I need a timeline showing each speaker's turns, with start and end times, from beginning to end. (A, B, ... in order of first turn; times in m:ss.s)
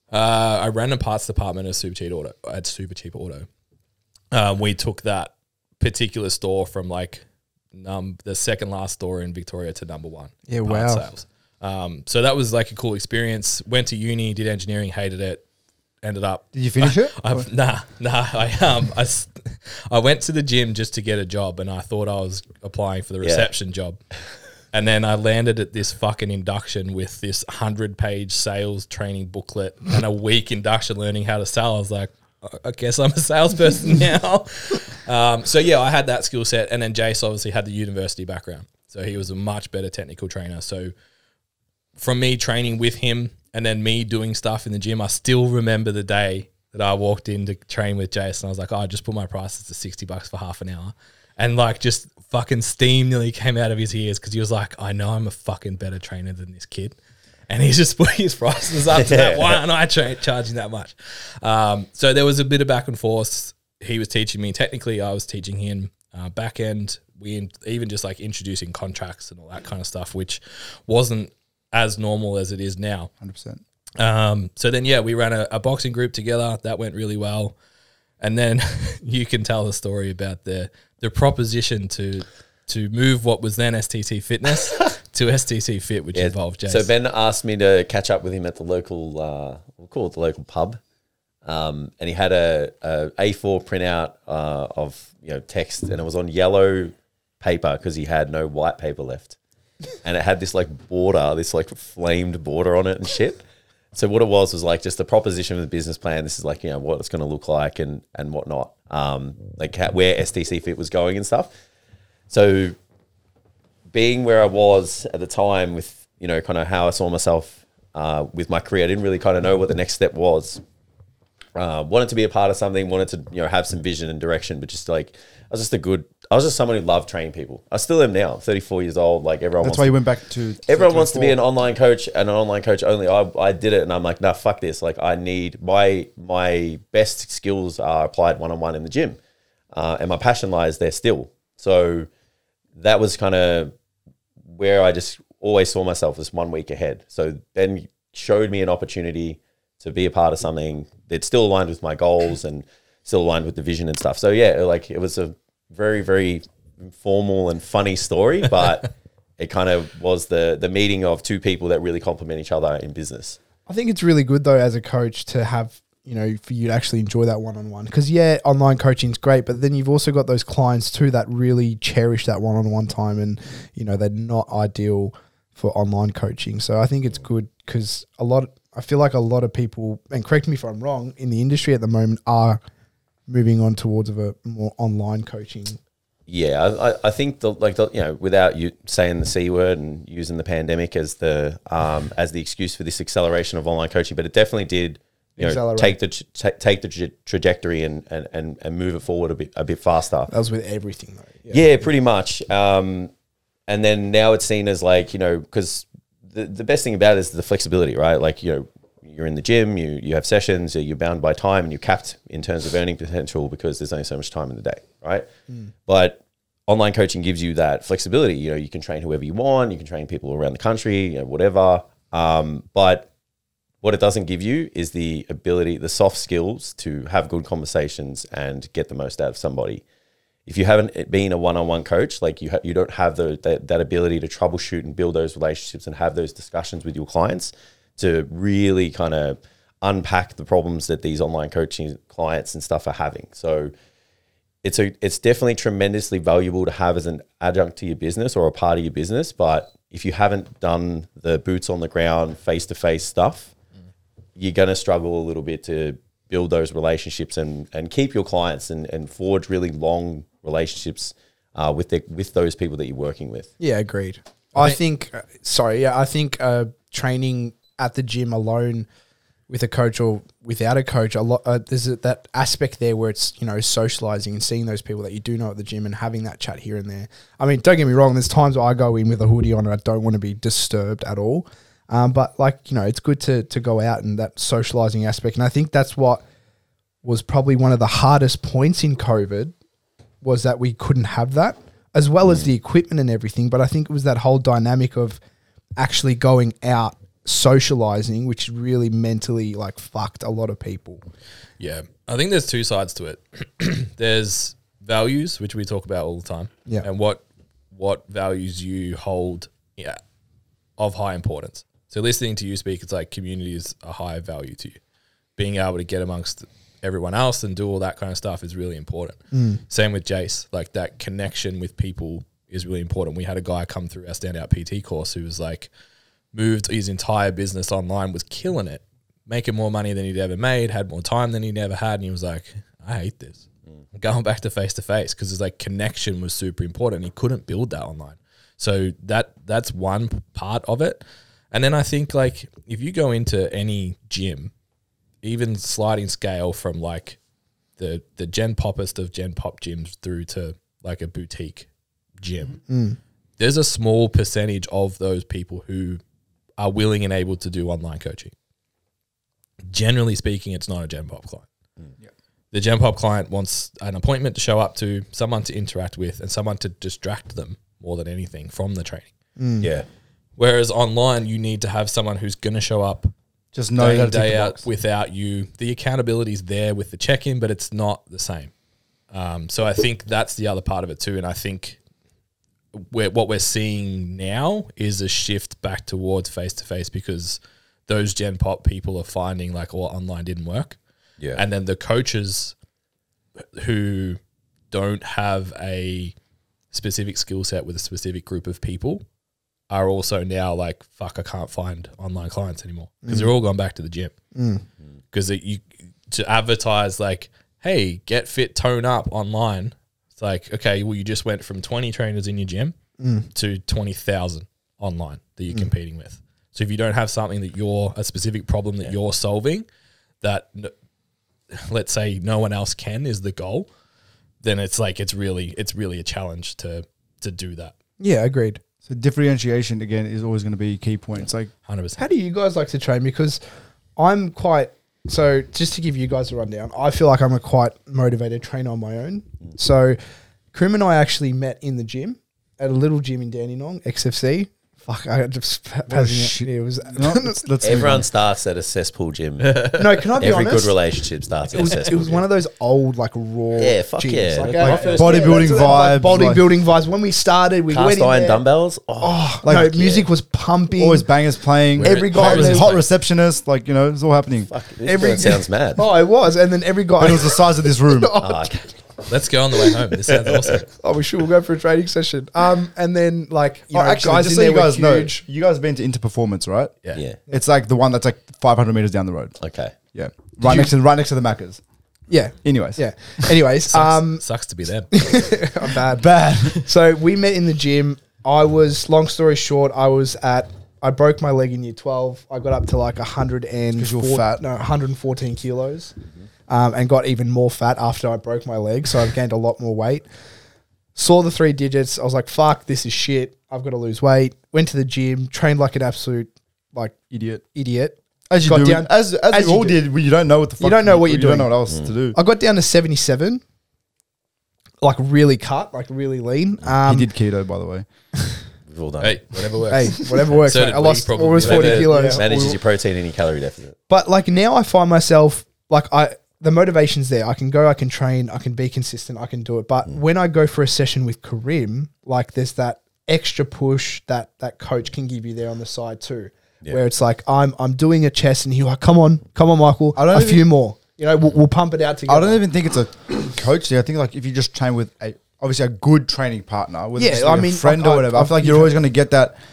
0:00.1-0:03.5 A
0:04.3-0:15.4 A
0:10.5-0:11.1 B
0:16.0-0:24.0 A
0:16.5-0:17.5 C
0:23.2-0:23.5 D
0:24.7-0:40.9 A
0:42.0-0:57.0 A
0:57.5-1:13.1 A
0:58.9-0:59.6 D
1:13.2-1:13.6 C
1:14.0-1:17.5 A
1:18.2-1:26.9 A
1:26.1-1:30.8 D
1:31.4-1:39.4 D
1:40.0-1:51.5 D
1:52.3-1:52.8 D
1:53.9-2:00.6 D
2:01.6-2:10.0 D
2:09.6-2:11.4 C
2:10.7-2:19.2 D
2:19.7-2:22.1 D
2:22.8-2:23.7 D
2:24.5-2:43.4 D
2:43.7-3:02.6 B
3:03.3-3:05.8 B
3:06.3-3:20.3 D
3:15.4-3:16.0 B
3:20.3-3:21.7 B
3:21.5-3:23.1 D
3:23.7-3:35.3 D
3:35.9-3:43.1 D
3:43.8-3:49.8 D
3:50.5-4:03.7 D
4:04.6-4:13.5 D
4:14.4-4:23.5 D
4:23.6-4:28.9 B
4:29.5-4:46.2 B
4:47.0-4:49.5 B
4:50.2-4:55.2 B
4:55.8-5:01.0 B
5:01.6-5:10.0 A
5:10.8-5:14.8 A
5:15.4-5:25.7 A
5:19.3-5:19.6 B
5:26.3-5:33.4 A
5:33.9-5:44.5 A
5:45.2-5:47.2 A
5:47.8-5:51.7 A
5:52.2-5:52.6 A
5:52.7-5:53.0 B
5:53.4-5:56.0 A
5:56.6-5:58.3 A
5:59.7-6:01.5 A
6:02.5-6:09.1 A
6:09.4-6:09.7 B
6:10.4-6:13.1 A
6:13.5-6:14.7 C
6:13.8-6:18.5 A
6:19.1-6:21.8 A
6:22.7-6:30.8 A
6:31.4-6:32.5 A
6:33.6-6:34.2 A
6:34.7-6:36.1 A
6:36.7-6:39.0 A
6:39.7-6:44.1 A
6:43.0-6:43.3 B
6:44.4-6:44.6 B
6:45.1-6:52.8 A
6:53.0-6:53.3 B
6:53.3-6:59.7 A
7:00.2-7:00.7 A
7:01.5-7:03.7 A
7:04.4-7:07.7 A
7:08.0-7:08.6 B
7:08.8-7:11.5 C
7:11.7-7:12.1 A
7:12.0-7:13.4 B
7:14.0-7:20.0 B
7:20.5-7:27.4 B
7:25.9-7:28.1 C
7:27.6-7:29.6 D
7:29.4-7:30.1 A
7:29.7-7:30.8 B
7:30.2-7:32.2 D
7:31.5-7:38.4 B
7:33.6-7:35.9 D
7:34.5-7:36.4 C
7:37.7-7:40.1 D
7:39.0-7:41.1 B
7:39.4-7:39.7 C
7:40.8-7:44.5 C
7:41.8-7:42.8 A
7:41.8-7:42.7 B
7:44.5-7:45.8 D
7:44.8-7:48.5 B
7:47.0-7:48.2 C
7:48.2-7:48.7 D
7:49.1-7:50.7 A
7:50.1-7:50.6 D
7:50.7-7:55.2 B
7:53.7-7:56.8 C
7:57.3-7:59.4 C
7:59.4-7:59.7 D
7:59.9-8:01.6 C
8:00.4-8:00.7 B
8:02.1-8:04.2 B
8:02.4-8:02.8 C
8:03.7-8:05.2 A
8:04.9-8:16.0 B
8:05.9-8:06.6 C
8:13.8-8:14.4 C
8:16.5-8:20.1 B
8:21.0-8:27.0 B
8:27.1-8:27.4 C
8:27.5-8:29.8 B
8:28.3-8:32.2 C
8:30.6-8:31.6 B
8:32.1-8:33.4 B
8:34.8-8:37.1 B
8:36.8-8:37.8 C
8:38.7-8:39.4 D
8:39.0-8:42.0 A
8:39.7-8:42.5 B
8:41.4-8:43.8 D
8:41.9-8:42.6 C
8:43.9-9:02.4 B
9:00.0-9:00.5 C
9:02.1-9:09.4 C
9:07.0-9:08.8 B